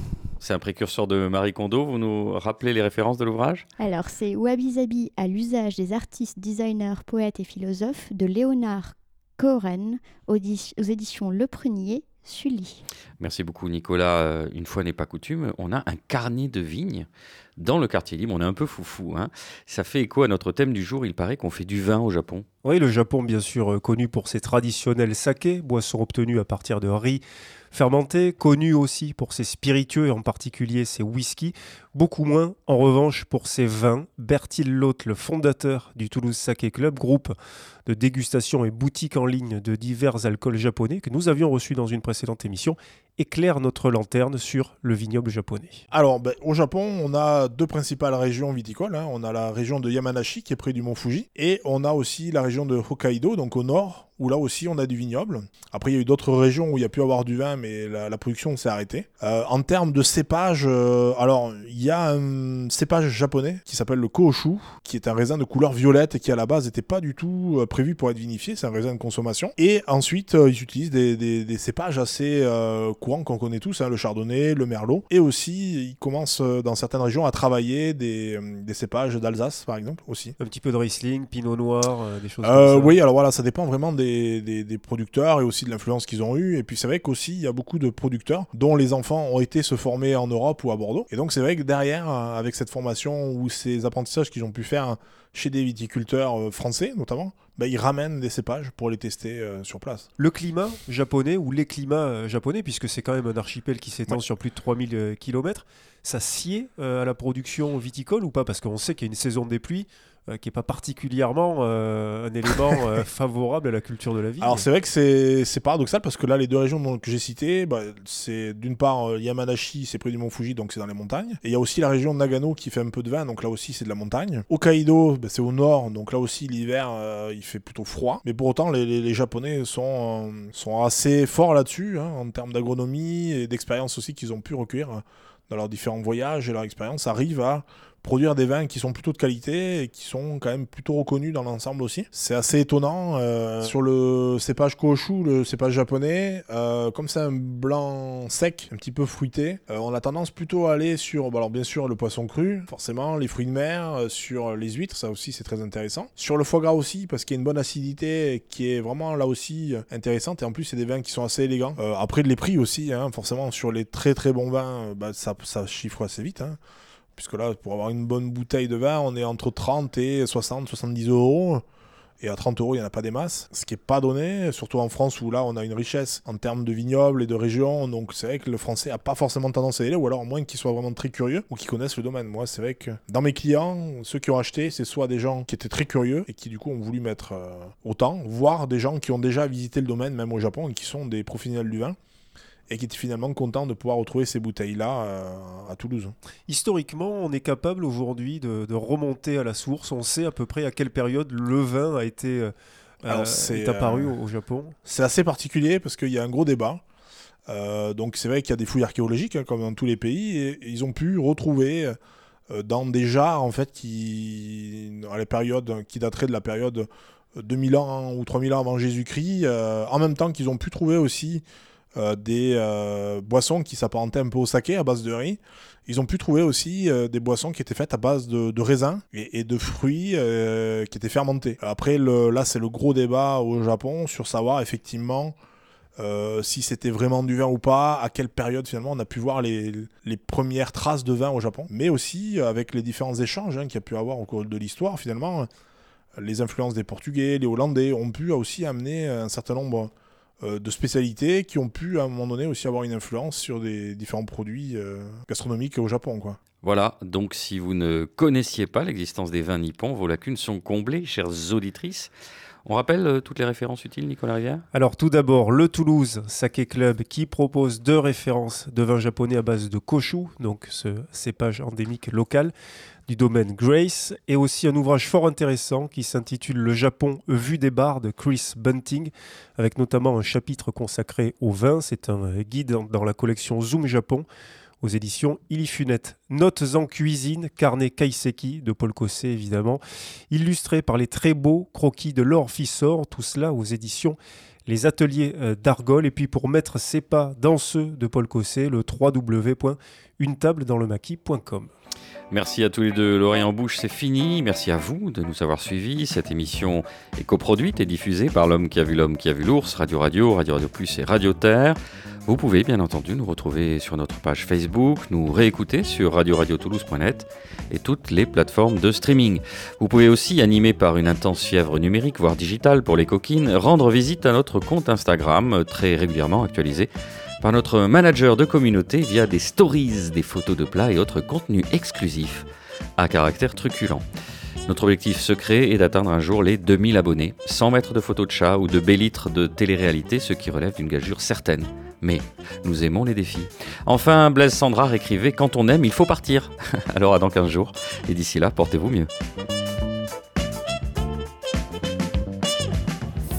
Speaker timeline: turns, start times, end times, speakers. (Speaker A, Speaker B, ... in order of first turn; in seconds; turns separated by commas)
Speaker A: 0.4-3.7, Speaker B: 3.8-12.8, Speaker A: 13.2-22.5, Speaker C: 22.6-37.4, Speaker C: 37.9-45.8, Speaker D: 45.9-80.4, Speaker C: 80.4-83.0, Speaker D: 82.4-100.1, Speaker C: 100.2-114.7, Speaker D: 114.4-166.6, Speaker D: 167.2-171.6, Speaker D: 172.2-192.0, Speaker D: 192.7-196.1, Speaker C: 196.5-202.5, Speaker C: 203.0-204.8, Speaker D: 203.1-204.2, Speaker D: 204.8-206.8, Speaker D: 207.5-212.0, Speaker D: 212.5-235.4, Speaker D: 236.0-245.5, Speaker D: 246.2-256.4, Speaker A: 256.6-262.1, Speaker A: 262.7-264.6, Speaker C: 264.7-272.5, Speaker C: 273.1-284.3, Speaker C: 284.8-301.7, Speaker A: 302.3-326.9, Speaker A: 327.4-332.5, Speaker A: 333.0-334.0, Speaker A: 334.7-349.1